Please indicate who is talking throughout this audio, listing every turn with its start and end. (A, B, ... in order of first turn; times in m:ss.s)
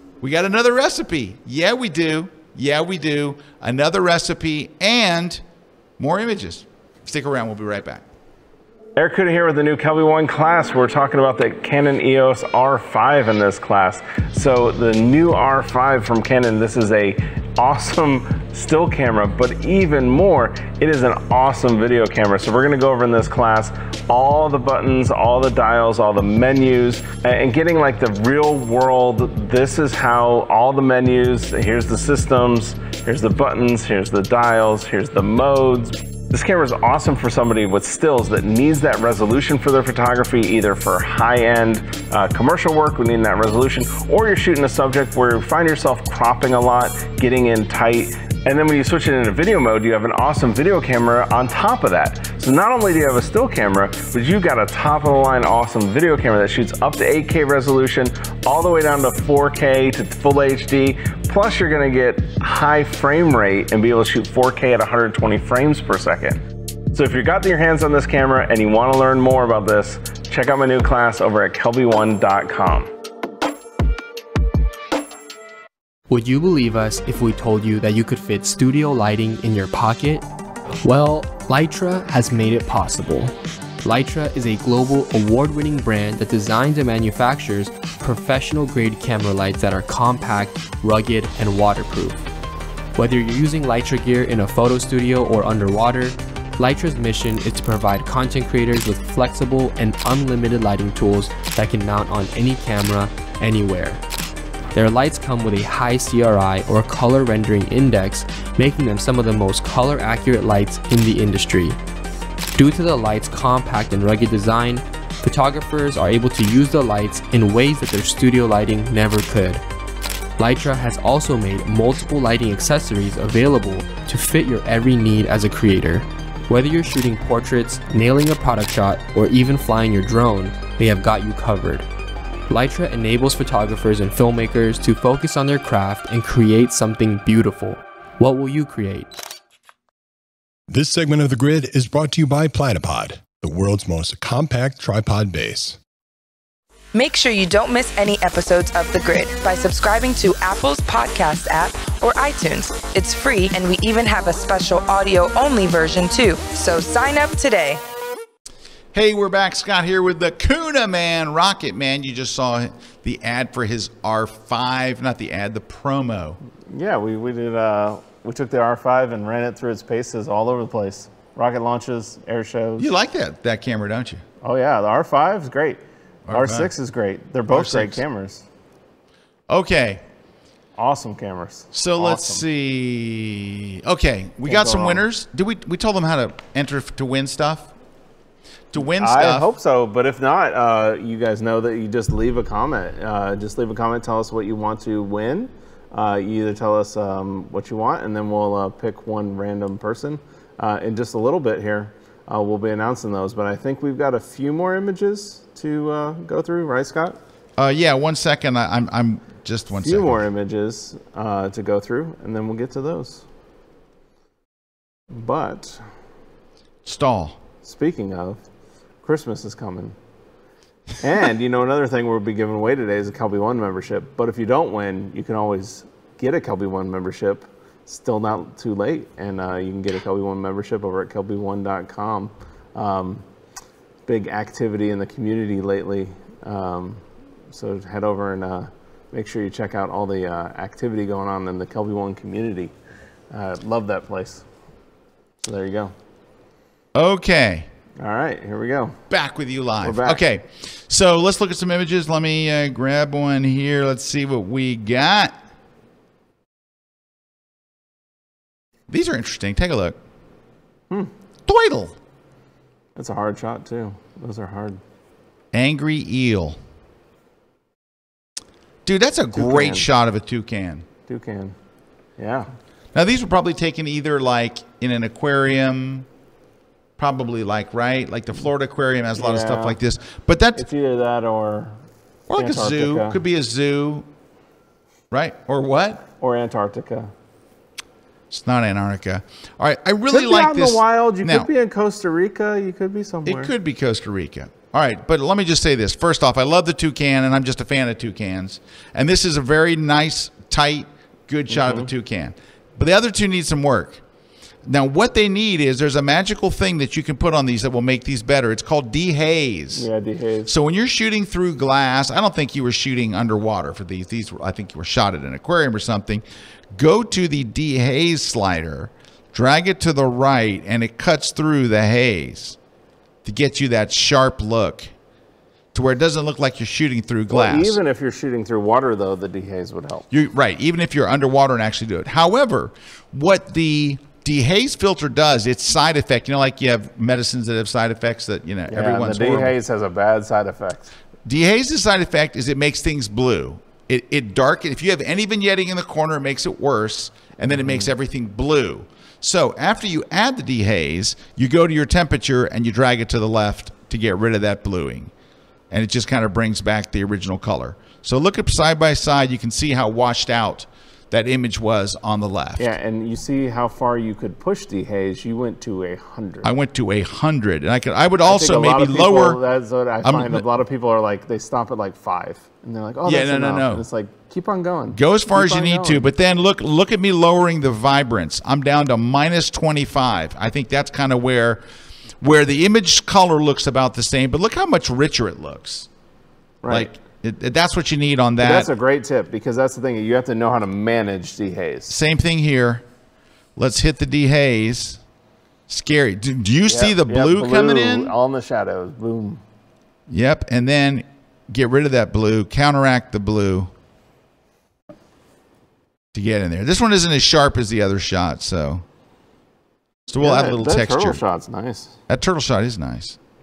0:00.2-0:05.4 A
0:06.0-0:08.1 A
0:09.0-1:12.9 B
1:16.1-1:20.2 C
1:20.8-1:32.3 C
1:33.0-1:44.0 C
1:44.7-1:51.8 C
1:52.6-1:59.6 C
2:00.4-2:11.9 C
2:12.5-2:19.1 C
2:20.7-2:25.8 D
2:26.9-2:37.8 E
2:38.9-2:46.4 A
2:46.7-2:52.9 B
2:52.8-2:54.2 A
2:54.4-2:55.8 B
2:56.3-2:56.7 A
2:56.3-2:58.4 B
2:57.5-2:58.0 A
2:59.5-3:00.0 A
3:00.8-3:02.4 B
3:01.7-3:07.7 A
3:04.4-3:05.0 B
3:08.7-3:09.5 A
3:08.9-3:27.2 B
3:27.6-3:30.3 A
3:29.8-3:33.2 B
3:35.1-3:35.8 B
3:36.8-3:37.4 A
3:37.6-3:38.4 B
3:39.0-3:40.0 B
3:41.0-3:53.2 B
3:54.1-4:02.7 B
4:03.3-4:04.4 B
4:05.4-4:05.9 B
4:06.9-4:07.7 A
4:08.0-4:09.0 B
4:09.1-4:15.4 A
4:09.8-4:10.2 B
4:18.9-4:20.0 A
4:21.5-4:22.0 A
4:23.0-4:24.8 B
4:25.5-4:26.6 A
4:28.8-4:30.9 A
4:29.4-4:29.9 B
4:31.1-4:31.6 B
4:32.2-4:32.5 B
4:32.9-4:36.1 A
4:37.0-4:40.7 A
4:39.2-4:39.8 B
4:40.6-4:41.8 B
4:42.3-4:44.1 A
4:42.4-4:43.2 B
4:45.1-4:46.0 A
4:46.2-4:47.1 B
4:48.3-4:51.5 A
4:50.1-4:53.5 B
4:53.2-5:04.0 A
5:01.5-5:01.9 B
5:04.6-5:09.9 A
5:09.8-5:10.5 B
5:10.5-5:22.6 A
5:23.2-5:24.9 A
5:25.7-5:27.8 A
5:27.3-5:30.1 B
5:30.1-5:39.6 A
5:38.7-5:41.0 B
5:41.2-5:55.1 A
5:47.5-5:47.9 B
5:55.7-6:02.7 A
6:02.6-6:06.5 B
6:06.4-6:09.4 A
6:08.2-6:16.1 B
6:10.0-6:10.4 A
6:13.0-6:13.8 A
6:14.9-6:21.6 A
6:22.2-6:25.9 A
6:26.6-6:26.9 B
6:26.7-6:28.7 A
6:28.4-6:31.9 B
6:31.9-6:32.8 A
6:33.6-6:35.0 A
6:35.7-6:38.1 A
6:36.7-6:39.4 B
6:40.1-6:43.7 A
6:46.1-6:48.8 A
6:50.1-6:51.2 A
6:50.2-6:52.0 B
6:52.1-6:53.2 A